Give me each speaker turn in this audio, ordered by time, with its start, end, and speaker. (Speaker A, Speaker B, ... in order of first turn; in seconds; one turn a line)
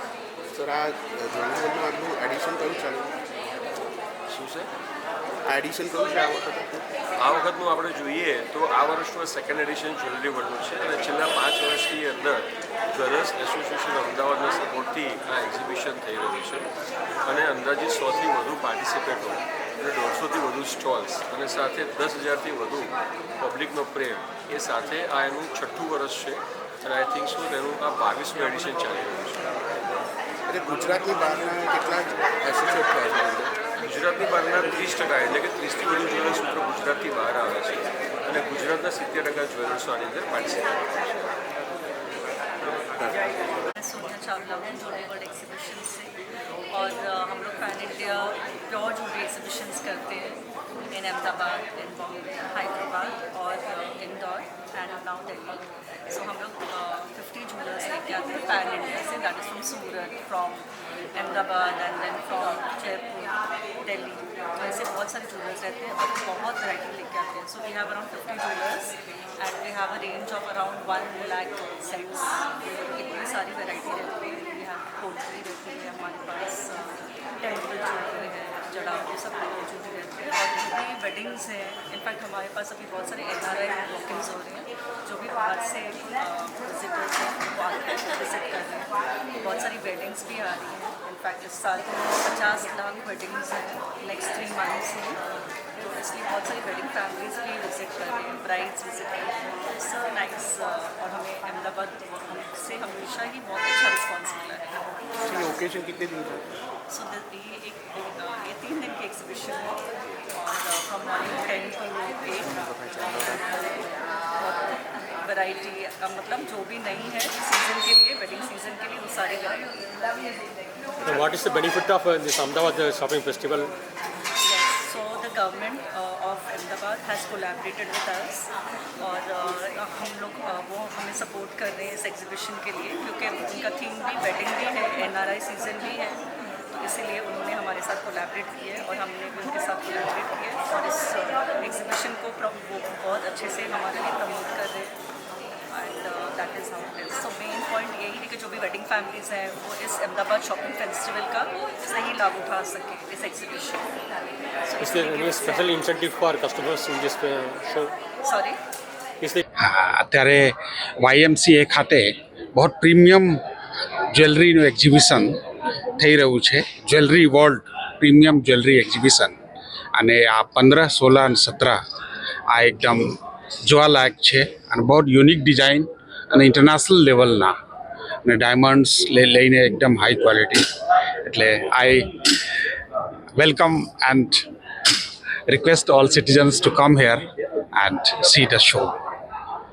Speaker A: 0.5-3.1
Speaker B: 4.3-4.7
Speaker A: 5.5-6.9
Speaker B: 7.2-16.7
Speaker B: 17.3-29.5
Speaker A: 30.5-33.5
Speaker B: 33.8-41.1
Speaker A: 43.0-43.3
Speaker C: 43.8-46.2
Speaker C: 46.7-95.2
Speaker C: 95.8-105.5
Speaker A: 105.6-106.5
Speaker C: 106.9-119.9
Speaker D: 121.0-123.7
Speaker C: 124.4-145.0
Speaker C: 145.7-153.9
Speaker C: 154.6-155.9
Speaker D: 154.8-157.9
Speaker C: 158.2-158.6
Speaker E: 159.6-163.4
Speaker E: 164.1-165.4
Speaker E: 166.0-169.3
Speaker E: 170.0-171.8
Speaker E: 172.5-173.1
Speaker E: 173.7-177.5
Speaker E: 178.2-180.7
Speaker E: 181.2-182.8
Speaker E: 183.4-189.0